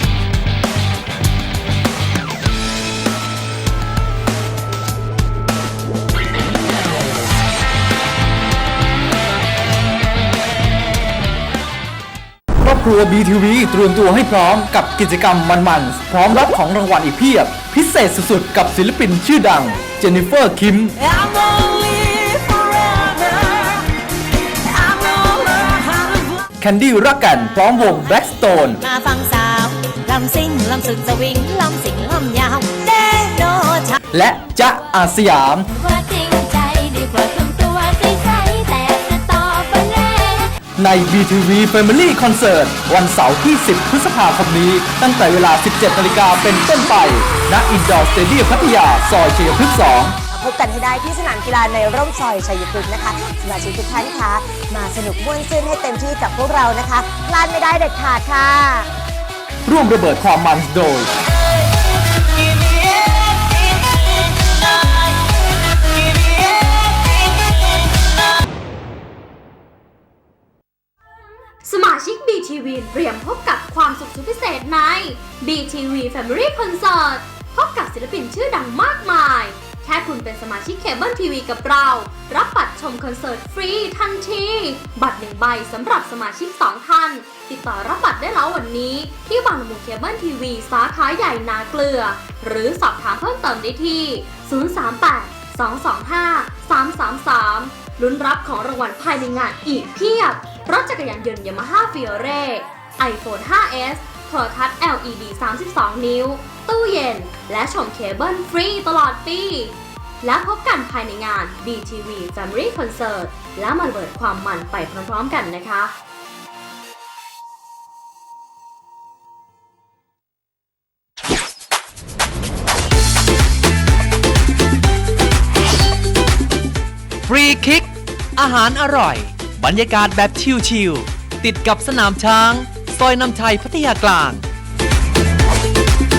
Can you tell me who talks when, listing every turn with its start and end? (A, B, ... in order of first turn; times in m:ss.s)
0:12.6-0:20.9 A
0:21.0-0:23.9 B
0:24.6-0:26.4 B
0:26.6-0:28.8 A
0:28.8-0:34.0 B
0:34.1-0:35.6 A
0:35.7-0:40.5 C
0:40.8-0:50.2 A
0:50.3-0:58.8 D
0:59.6-1:01.1 A
1:11.6-1:55.9 E
2:07.2-2:14.4 F